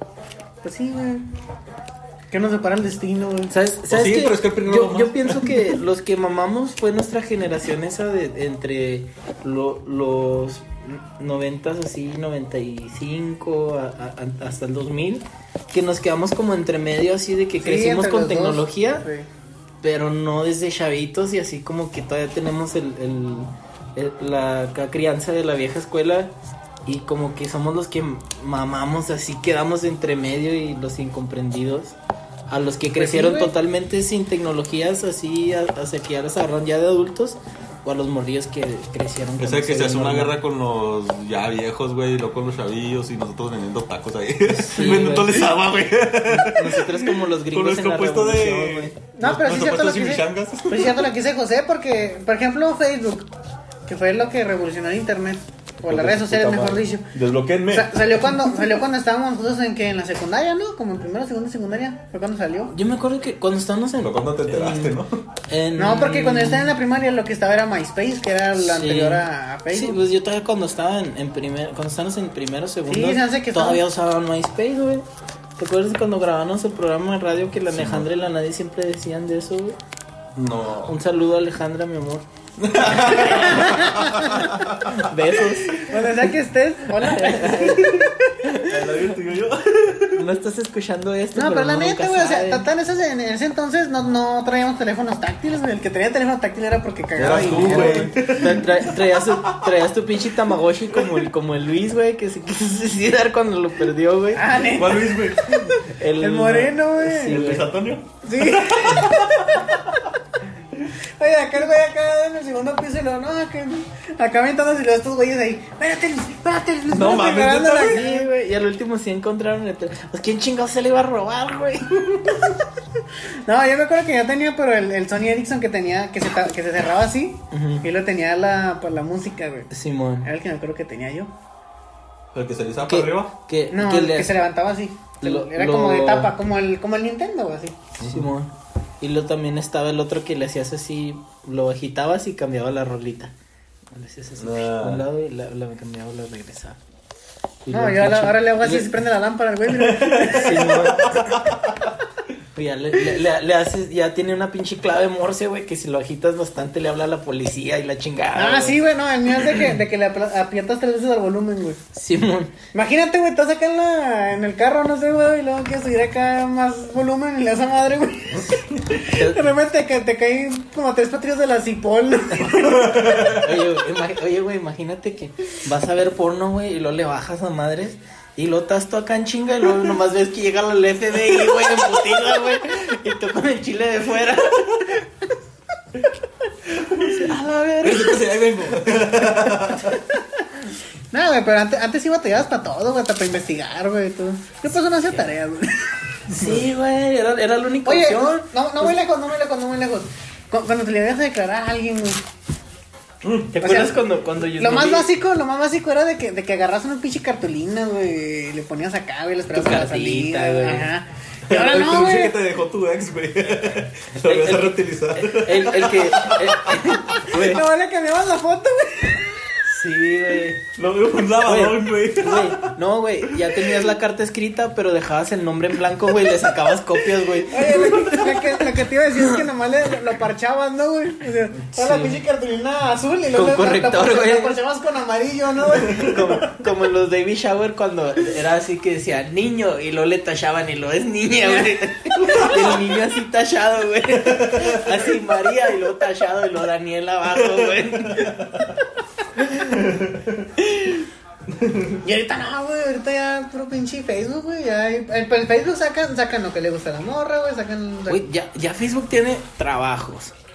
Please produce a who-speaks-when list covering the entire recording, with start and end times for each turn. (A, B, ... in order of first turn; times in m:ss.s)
0:00.6-0:01.2 A
0:02.3-0:03.5 A
0:03.5-0:19.0 B
0:03.9-0:05.8 C
0:17.6-0:19.3 A
0:19.8-0:26.3 B
0:26.9-0:32.0 B
0:32.5-0:40.4 B
0:33.0-0:33.5 A
0:39.4-0:51.1 C
0:44.5-0:45.5 B
0:46.3-0:48.9 B
0:49.1-0:53.3 A
0:53.9-0:57.1 A
0:55.8-0:58.4 C
0:57.7-1:02.7 A
1:02.7-1:06.7 B
1:04.0-1:05.2 C
1:05.8-1:10.0 A
1:08.6-1:15.0 B
1:12.9-1:13.8 A
1:15.6-1:19.8 B
1:17.7-1:18.1 C
1:20.4-1:21.0 C
1:20.8-1:22.3 B
1:22.6-1:25.1 C
1:23.0-1:24.6 A
1:23.1-1:23.6 B
1:24.5-1:26.0 B
1:25.8-1:28.3 A
1:27.0-1:28.8 B
1:28.7-1:30.2 C
1:30.2-1:32.7 B
1:31.4-1:38.6 A
1:37.2-1:39.7 C
1:37.2-1:44.4 B
1:44.3-1:47.4 A
1:44.7-1:45.6 C
1:45.8-1:47.7 B
1:47.3-1:49.7 C
1:48.2-1:50.1 A
1:51.2-1:58.3 A
1:56.9-1:58.0 C
1:57.8-2:02.5 B
2:03.4-2:09.7 A
2:07.5-2:07.9 B
2:09.7-2:10.3 B
2:10.2-2:11.3 A
2:12.3-2:13.3 C
2:12.9-2:14.4 B
2:13.7-2:17.8 A
2:15.2-2:16.3 B
2:18.0-2:23.3 B
2:18.0-2:18.3 C
2:23.9-2:26.8 B
2:24.4-2:25.0 C
2:27.6-2:28.9 B
2:27.7-2:30.8 A
2:29.7-2:31.6 C
2:30.3-2:31.2 B
2:32.5-2:38.8 B
2:38.4-2:41.8 A
2:41.9-2:42.5 B
2:42.7-2:52.9 A
2:49.1-2:49.5 B
2:52.4-2:53.6 C
2:53.2-3:04.9 B
3:06.8-3:10.0 C
3:06.9-3:08.3 B
3:11.1-3:15.9 A
3:16.3-3:19.0 B
3:16.3-3:16.6 C
3:17.8-3:22.2 A
3:23.2-3:23.6 C
3:23.5-3:25.1 B
3:23.6-3:24.0 A
3:24.6-3:32.4 A
3:29.5-3:30.9 B
3:31.5-3:36.8 C
3:34.2-3:37.6 B
3:36.9-3:39.4 A
3:39.7-3:40.6 B
3:40.8-3:42.7 C
3:41.4-3:48.7 B
3:47.5-3:56.5 A
3:51.8-3:52.2 B
3:53.3-3:54.6 B
3:55.8-4:08.5 B
4:01.4-4:01.7 A
4:02.3-4:02.8 C
4:04.3-4:04.9 C
4:08.1-4:08.6 C
4:09.7-4:10.5 C
4:10.7-4:11.0 B
4:11.5-4:12.0 C
4:12.0-4:18.2 A
4:18.1-4:20.3 B